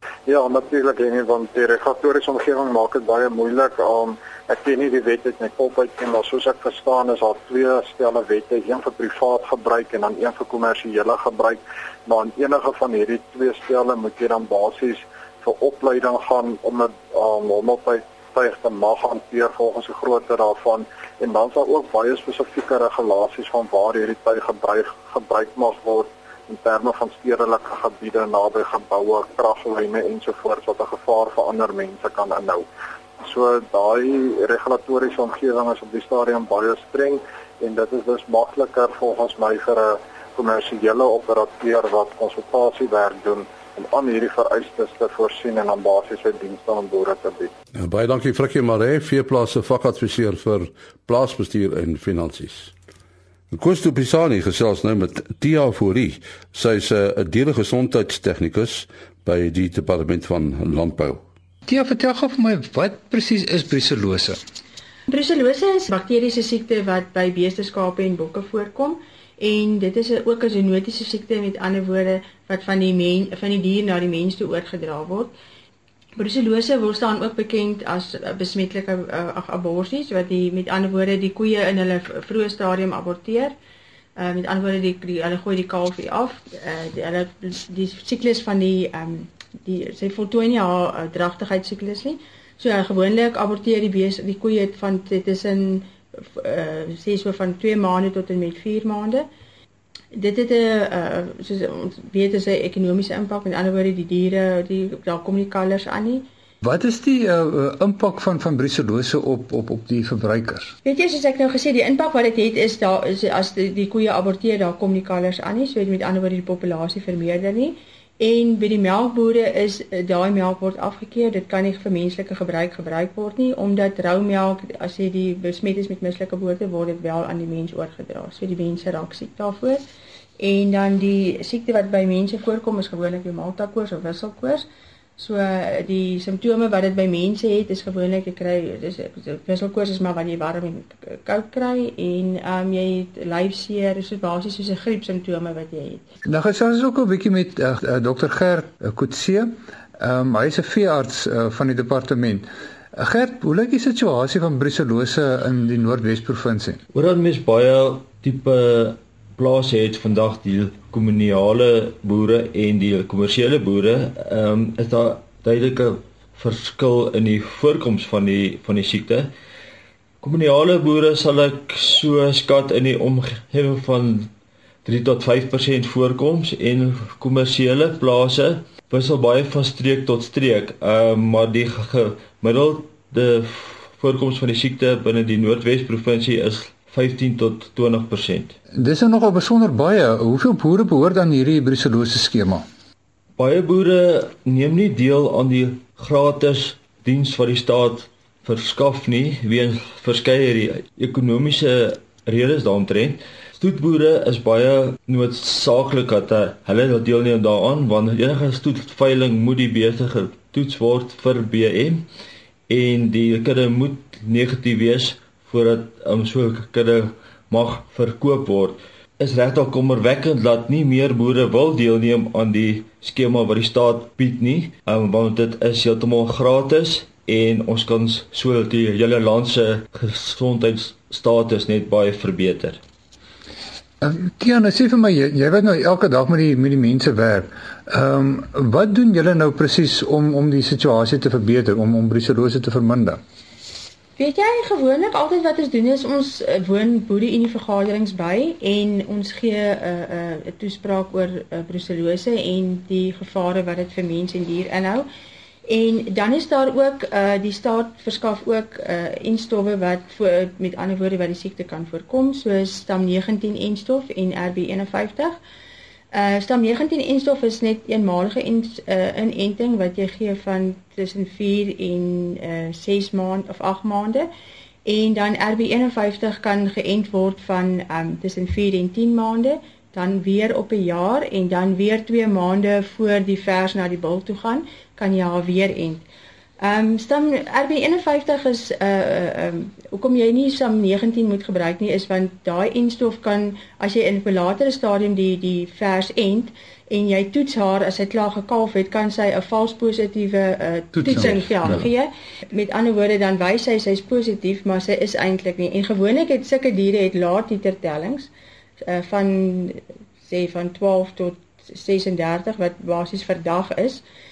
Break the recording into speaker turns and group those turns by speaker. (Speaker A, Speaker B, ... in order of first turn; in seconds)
Speaker A: 0.3-32.6, 33.2-47.5
Speaker B: 47.8-52.7, 53.5-61.2
Speaker C: 61.7-64.4, 106.6-110.7, 146.3-156.8, 188.8-192.6, 234.0-243.2, 301.0-301.7
Speaker D: 65.1-75.3, 76.2-83.5, 84.2-99.2, 100.1-106.2, 110.8-129.8, 130.4-134.6, 135.2-146.0, 244.2-255.1, 255.7-265.4, 266.1-274.3, 274.8-286.0, 286.6-308.3, 308.8-314.0
Speaker E: 156.9-169.3, 170.2-174.3, 174.8-188.6, 193.4-212.0, 212.7-232.8